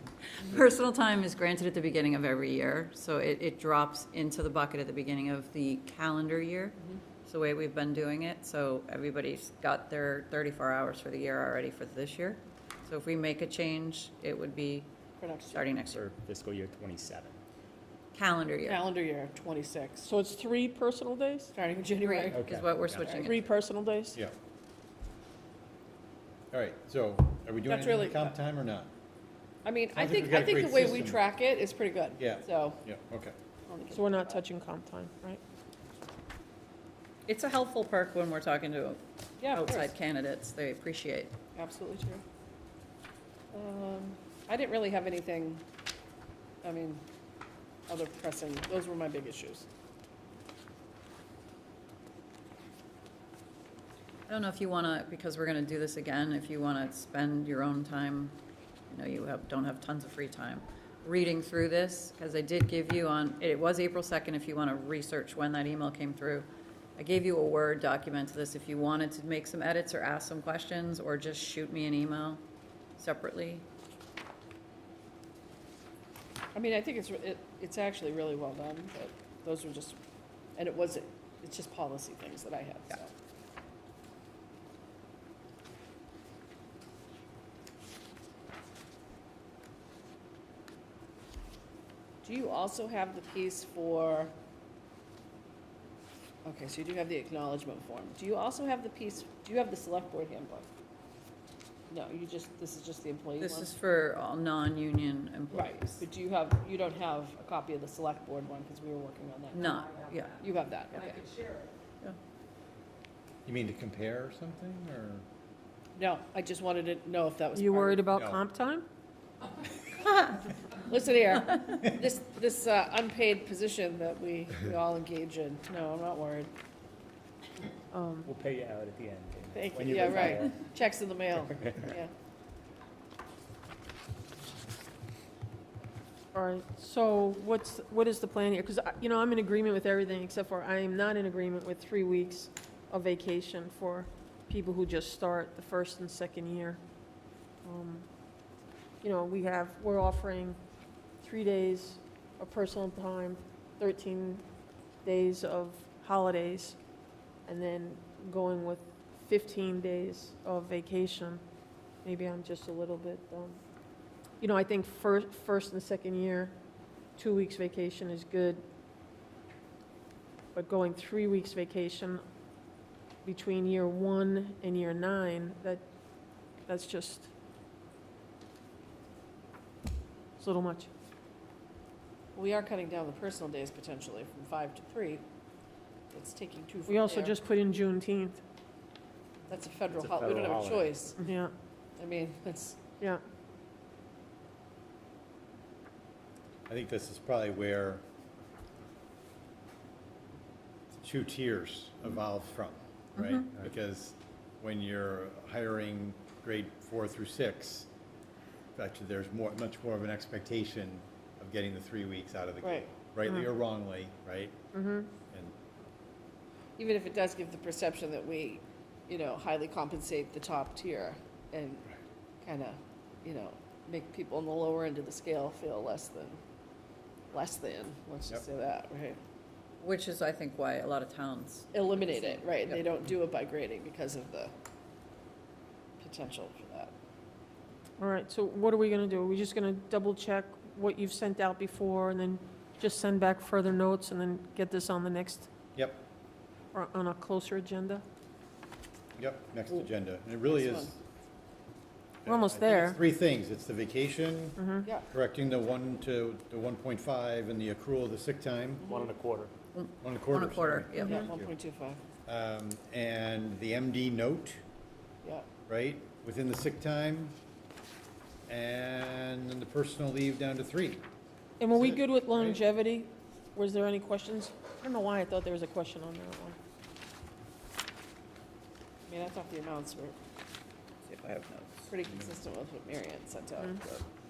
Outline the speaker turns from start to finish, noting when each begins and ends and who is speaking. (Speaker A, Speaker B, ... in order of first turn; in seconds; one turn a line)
Speaker A: 0.3-14.9
Speaker B: 15.2-15.6
Speaker A: 15.5-16.1
Speaker C: 15.8-17.4
Speaker A: 18.1-18.9
Speaker B: 18.7-20.1
Speaker D: 20.0-21.5
Speaker B: 21.5-22.4
Speaker A: 22.0-23.4
Speaker C: 22.3-23.3
Speaker B: 23.0-23.3
Speaker D: 23.2-24.2
Speaker E: 26.5-28.9
Speaker B: 27.6-28.3
Speaker B: 29.6-32.8
Speaker E: 29.9-31.2
Speaker E: 32.2-33.4
Speaker B: 33.7-34.4
Speaker D: 33.9-35.4
Speaker A: 37.3-41.3
Speaker B: 39.4-39.9
Speaker B: 41.5-42.2
Speaker B: 43.5-45.6
Speaker B: 46.6-47.0
Speaker B: 47.9-49.7
Speaker A: 54.3-58.4
Speaker A: 58.9-72.4
Speaker A: 73.0-73.7
Speaker B: 76.5-80.0
Speaker B: 80.6-83.1
Speaker B: 92.2-94.3
Speaker B: 96.5-100.7
Speaker B: 101.9-103.7
Speaker A: 103.4-106.0
Speaker B: 105.5-111.5
Speaker A: 109.5-110.4
Speaker E: 113.5-115.2
Speaker B: 116.0-118.1
Speaker D: 117.5-118.9
Speaker E: 118.1-118.4
Speaker B: 120.8-126.5
Speaker D: 127.9-128.3
Speaker C: 128.3-130.7
Speaker B: 129.5-132.1
Speaker C: 131.5-132.0
Speaker D: 136.3-146.8
Speaker D: 147.6-148.1
Speaker D: 149.0-150.6
Speaker D: 151.2-154.4
Speaker D: 155.1-156.8
Speaker D: 157.5-161.4
Speaker D: 162.0-163.6
Speaker D: 164.4-166.6
Speaker D: 167.2-168.6
Speaker D: 170.6-172.2
Speaker D: 173.2-175.8
Speaker D: 176.7-177.3
Speaker D: 180.4-180.9
Speaker B: 182.3-185.2
Speaker B: 186.1-187.3
Speaker D: 186.9-188.4
Speaker B: 189.5-191.2
Speaker C: 189.9-191.1
Speaker D: 191.2-191.5
Speaker B: 192.0-192.8
Speaker E: 196.7-198.0
Speaker E: 200.9-207.9
Speaker A: 203.2-203.4
Speaker E: 208.8-214.6
Speaker B: 212.6-212.9
Speaker D: 214.7-215.1
Speaker E: 215.3-215.6
Speaker B: 216.8-221.9
Speaker B: 222.4-226.4
Speaker B: 227.3-229.2
Speaker A: 229.8-232.9
Speaker B: 231.7-234.5
Speaker B: 236.0-236.9
Speaker D: 238.0-245.5
Speaker E: 245.8-246.0
Speaker D: 246.7-248.0
Speaker E: 249.2-251.0
Speaker B: 250.5-250.9
Speaker E: 252.2-258.9
Speaker D: 252.3-253.0
Speaker D: 254.6-254.9
Speaker B: 258.8-259.1
Speaker C: 258.9-259.5
Speaker A: 259.7-261.2
Speaker E: 260.0-261.5
Speaker D: 261.0-261.3
Speaker B: 261.0-262.0
Speaker E: 262.3-264.6
Speaker E: 265.7-267.4
Speaker E: 268.5-271.1
Speaker D: 271.6-276.6
Speaker E: 271.7-272.6
Speaker B: 279.1-280.2
Speaker A: 281.1-281.8
Speaker B: 281.9-284.1